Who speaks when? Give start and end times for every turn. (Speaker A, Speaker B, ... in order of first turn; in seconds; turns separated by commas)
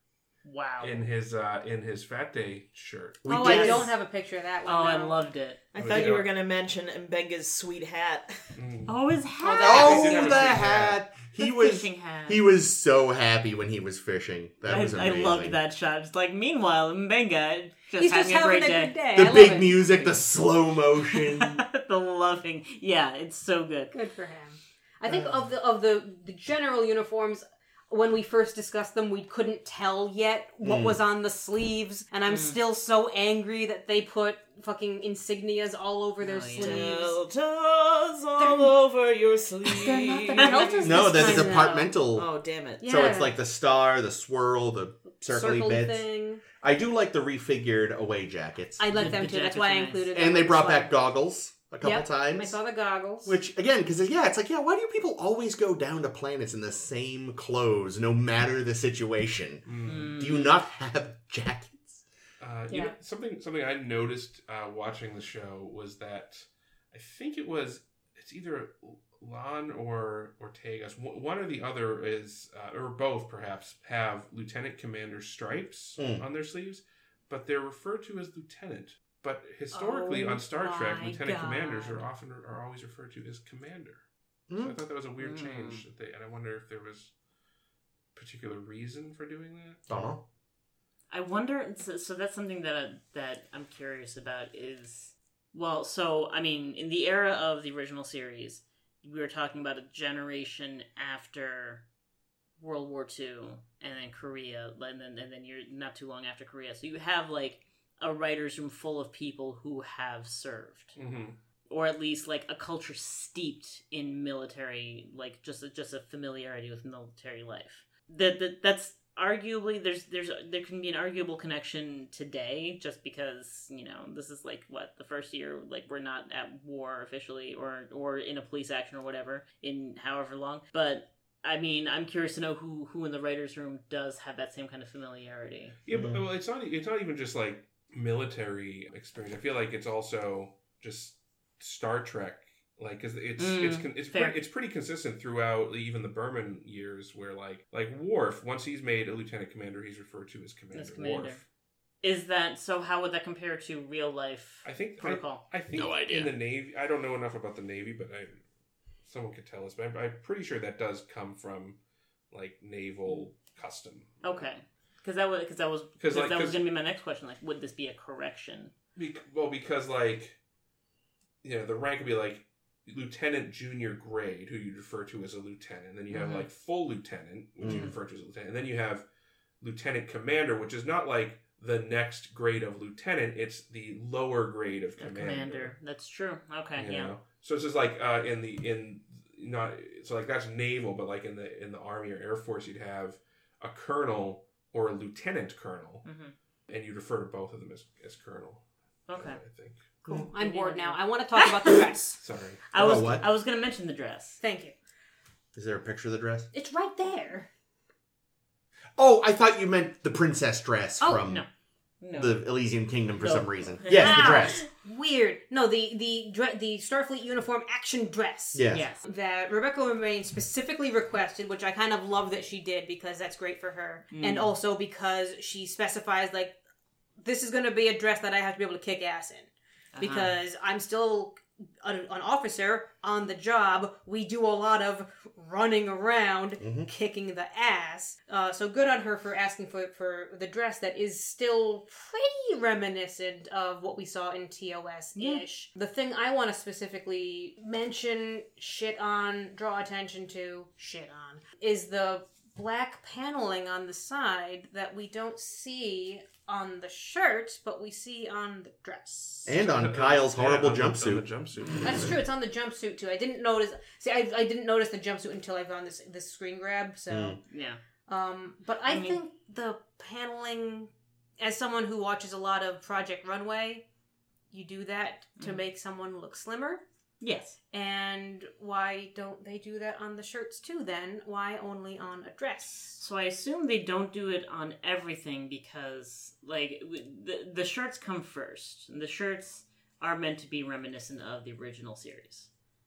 Speaker A: 0.4-1.1, Speaker B: 0.8-3.2, Speaker C: 3.2-3.9, Speaker D: 3.3-5.2, Speaker A: 3.3-3.9, Speaker A: 4.7-5.6, Speaker E: 5.7-8.5, Speaker B: 5.8-6.3, Speaker B: 8.6-8.9, Speaker A: 8.9-10.3, Speaker D: 9.4-10.6, Speaker C: 9.6-15.6, Speaker B: 9.6-11.0, Speaker A: 11.4-12.4, Speaker A: 14.7-19.0, Speaker D: 18.0-20.0, Speaker C: 19.1-21.6, Speaker A: 21.1-23.9, Speaker D: 23.9-37.2, Speaker C: 25.1-25.4, Speaker C: 30.6-31.0, Speaker A: 32.3-32.6, Speaker A: 36.2-36.8, Speaker E: 36.6-41.5, Speaker D: 38.4-38.7, Speaker D: 39.7-42.0, Speaker A: 40.3-41.4, Speaker C: 40.8-42.3, Speaker E: 42.1-42.8, Speaker C: 42.8-46.0, Speaker D: 42.8-43.3, Speaker D: 45.3-46.4, Speaker C: 46.6-49.1, Speaker D: 48.8-50.9, Speaker A: 48.9-50.1, Speaker C: 50.1-52.6, Speaker D: 51.8-53.4, Speaker C: 53.2-62.0, Speaker B: 59.6-60.2, Speaker A: 59.8-60.5, Speaker B: 62.4-84.0, Speaker D: 62.7-62.9, Speaker C: 76.0-76.2, Speaker D: 79.7-82.0, Speaker C: 84.5-84.7, Speaker B: 84.5-87.1, Speaker A: 85.2-85.8, Speaker B: 88.1-90.1, Speaker C: 89.9-90.2, Speaker A: 91.1-101.8, Speaker A: 102.6-111.0, Speaker B: 111.0-111.4, Speaker A: 111.7-135.7, Speaker B: 135.8-151.4, Speaker C: 135.9-136.2, Speaker A: 143.4-144.4, Speaker A: 150.7-151.4, Speaker A: 152.0-155.4, Speaker B: 154.6-158.4, Speaker C: 155.7-156.3, Speaker B: 159.0-161.8, Speaker B: 162.3-164.4, Speaker A: 164.2-168.7, Speaker B: 166.0-166.6, Speaker B: 168.9-170.4, Speaker B: 171.4-179.1, Speaker A: 176.1-176.5, Speaker C: 177.6-177.9, Speaker A: 177.7-177.9, Speaker B: 179.6-185.7, Speaker A: 185.0-187.1, Speaker B: 186.8-196.0, Speaker A: 196.0-196.3, Speaker B: 196.7-199.9, Speaker A: 199.1-199.4, Speaker D: 200.1-202.2, Speaker A: 200.3-201.8, Speaker B: 202.2-202.6, Speaker A: 202.7-204.4, Speaker C: 202.7-203.2, Speaker D: 204.4-204.7, Speaker C: 205.5-206.5, Speaker D: 206.5-207.5, Speaker C: 209.0-211.4, Speaker D: 211.0-211.3, Speaker A: 212.0-212.5, Speaker C: 212.1-214.6, Speaker A: 213.2-214.5, Speaker D: 213.9-226.6, Speaker C: 218.5-218.8, Speaker A: 218.7-219.0, Speaker A: 224.1-224.5, Speaker D: 227.2-259.6, Speaker A: 229.9-230.3, Speaker C: 236.6-236.9, Speaker A: 245.2-245.4, Speaker C: 259.4-261.3, Speaker B: 259.6-262.2, Speaker D: 261.8-267.4, Speaker C: 267.1-267.4, Speaker A: 267.5-267.8, Speaker D: 268.1-273.8, Speaker A: 268.9-269.2, Speaker D: 274.5-276.8, Speaker A: 277.2-277.6, Speaker D: 277.7-283.0, Speaker A: 282.9-292.5